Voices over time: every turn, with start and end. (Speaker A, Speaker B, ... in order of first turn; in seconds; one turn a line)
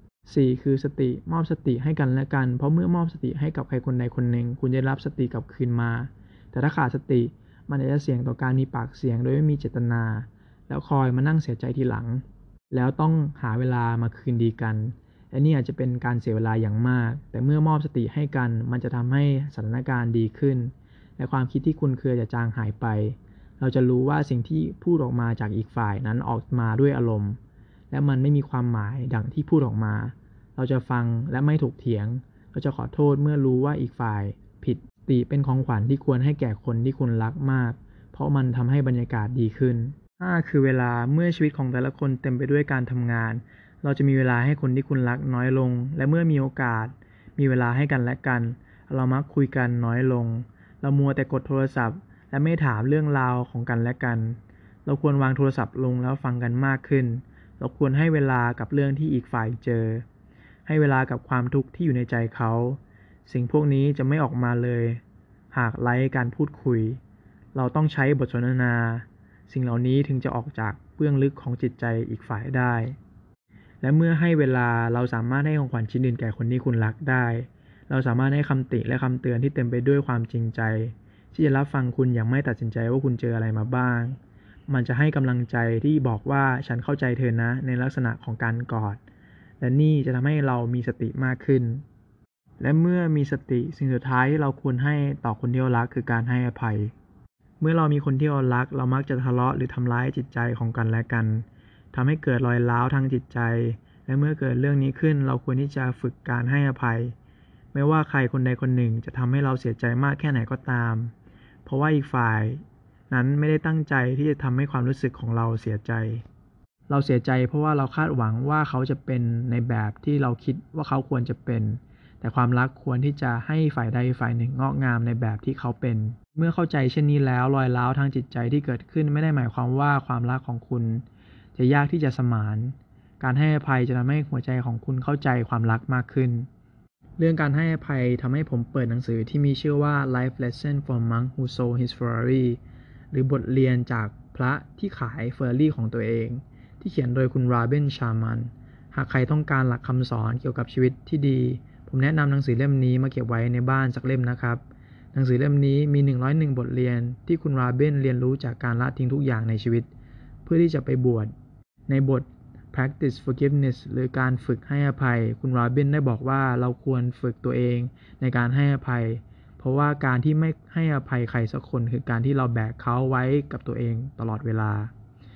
Speaker A: 0.2-27.4
Speaker A: 27.9-60.0
Speaker A: 60.6-65.0
Speaker A: 65.5-67.0
Speaker A: 67.5-73.0
Speaker A: 73.8-84.2
Speaker A: 84.7-89.0
Speaker A: 89.6-91.8
Speaker A: 92.6-96.9
Speaker A: 97.6-107.1
Speaker A: 107.7-111.1
Speaker A: 111.6-116.2
Speaker A: 116.9-131.0
Speaker A: 131.6-136.5
Speaker A: 137.2-142.6
Speaker A: 143.1-154.6
Speaker A: 155.1-159.9
Speaker A: 160.4-161.3
Speaker A: 161.9-174.9